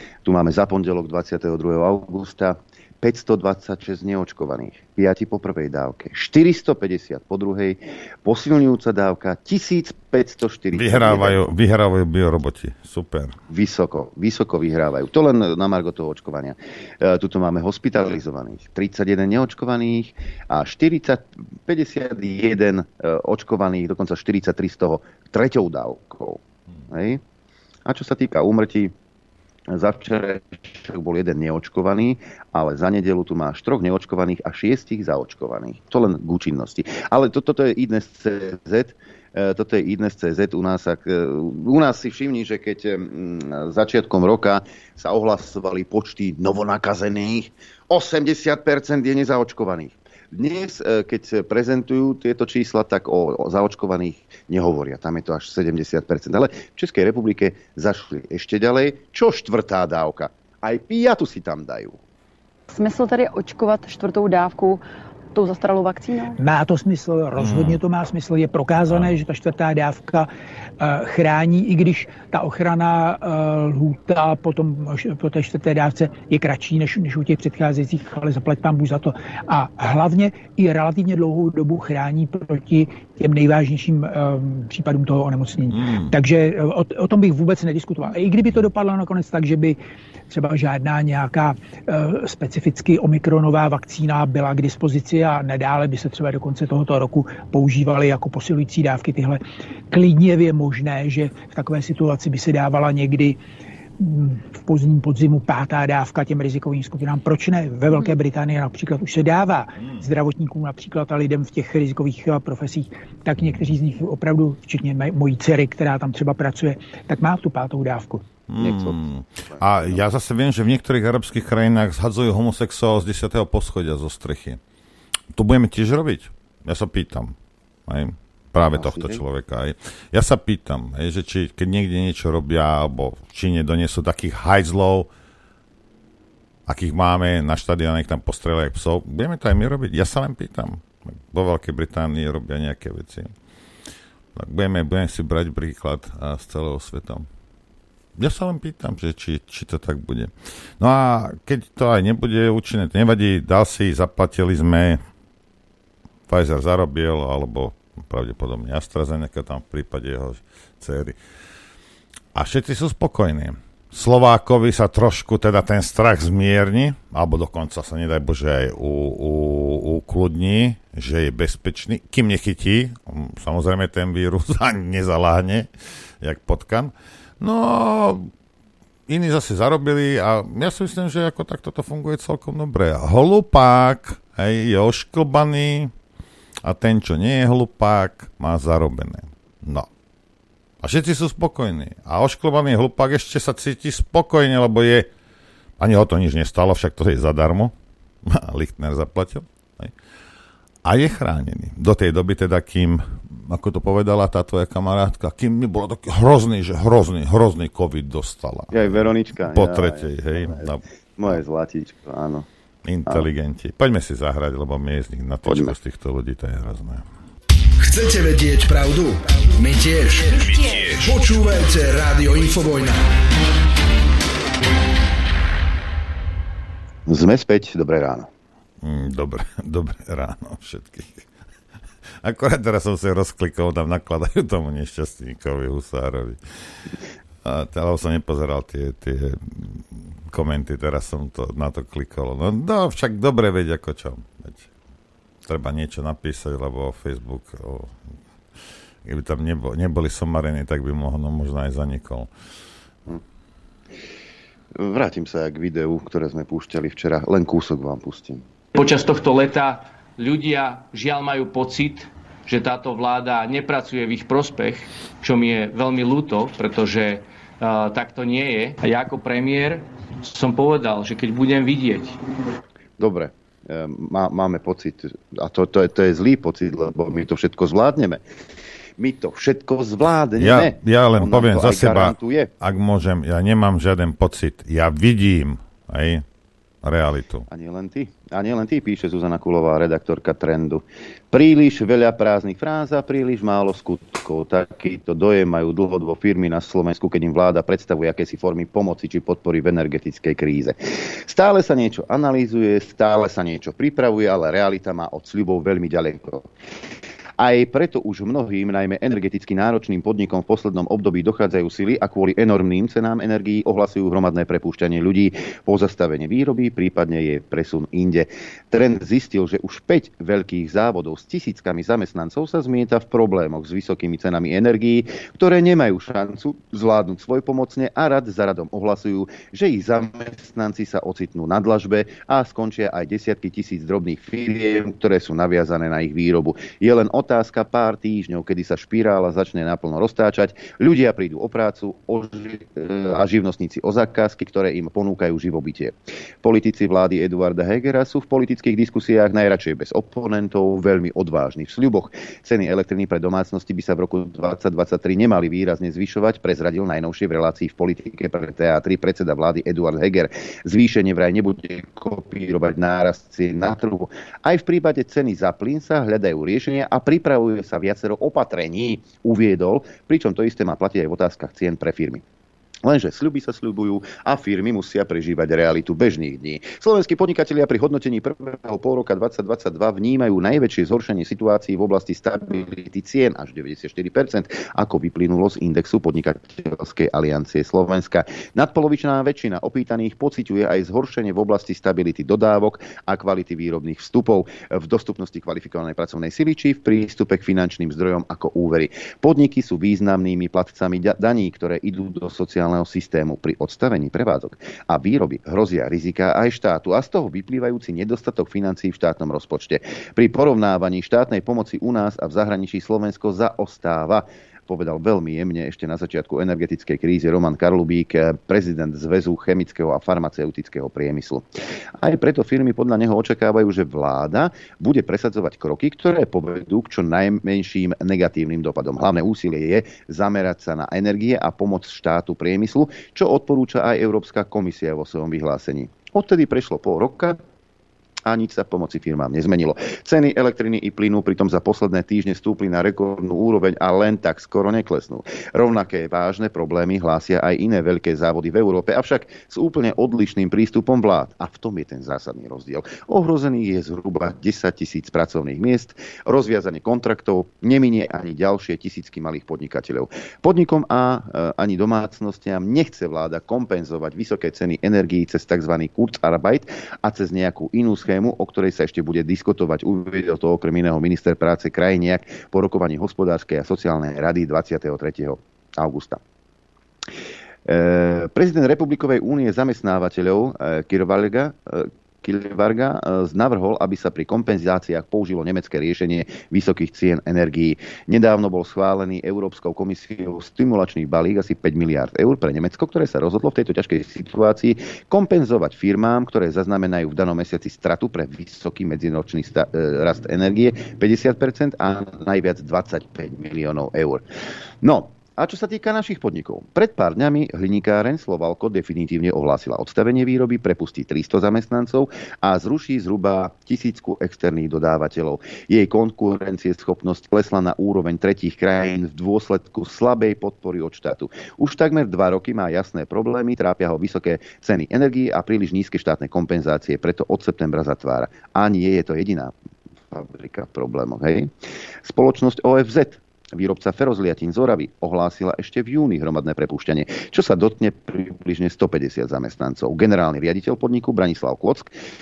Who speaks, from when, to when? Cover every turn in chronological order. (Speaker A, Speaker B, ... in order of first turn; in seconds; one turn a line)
Speaker A: 0.2-11.4
Speaker B: 10.7-13.3
Speaker A: 13.5-27.2
Speaker A: 27.9-28.9
Speaker A: 29.7-62.0
Speaker C: 62.7-64.8
Speaker C: 65.3-66.3
Speaker D: 66.4-89.8
Speaker B: 67.3-67.8
Speaker B: 68.9-69.2
Speaker B: 85.7-86.1
Speaker D: 90.3-103.4
Speaker D: 104.0-118.2
Speaker B: 118.5-124.6
Speaker A: 118.6-120.0
Speaker B: 125.3-127.3
Speaker B: 127.9-135.1
Speaker A: 128.7-129.2
Speaker B: 136.7-143.3
Speaker B: 144.3-147.3
Speaker B: 148.2-155.0
Speaker B: 156.3-161.2
Speaker B: 162.3-175.7
Speaker B: 176.2-178.3
Speaker B: 179.1-185.9
Speaker B: 186.6-189.9
Speaker B: 190.8-195.1
Speaker B: 195.8-197.7
Speaker B: 198.2-199.9
Speaker B: 200.8-211.4
Speaker A: 208.7-212.5
Speaker B: 212.8-217.1
Speaker A: 215.4-215.7
Speaker E: 217.8-223.0
Speaker A: 227.1-228.3
Speaker B: 228.8-231.2
Speaker B: 232.2-236.4
Speaker B: 237.4-244.7
Speaker B: 245.4-247.9
Speaker B: 249.0-252.3
Speaker A: 254.8-258.4
Speaker F: 258.8-272.2
Speaker A: 273.0-278.2
Speaker A: 279.0-282.5
Speaker B: 280.4-286.2
Speaker B: 286.8-287.5
Speaker A: 287.5-300.8
Speaker A: 301.3-306.5
Speaker A: 307.4-372.2
Speaker A: 372.8-421.4
Speaker A: 422.0-437.4
Speaker A: 438.2-476.2
Speaker A: 477.6-504.2
Speaker A: 504.8-529.5
Speaker A: 530.1-531.5
Speaker A: 532.0-541.9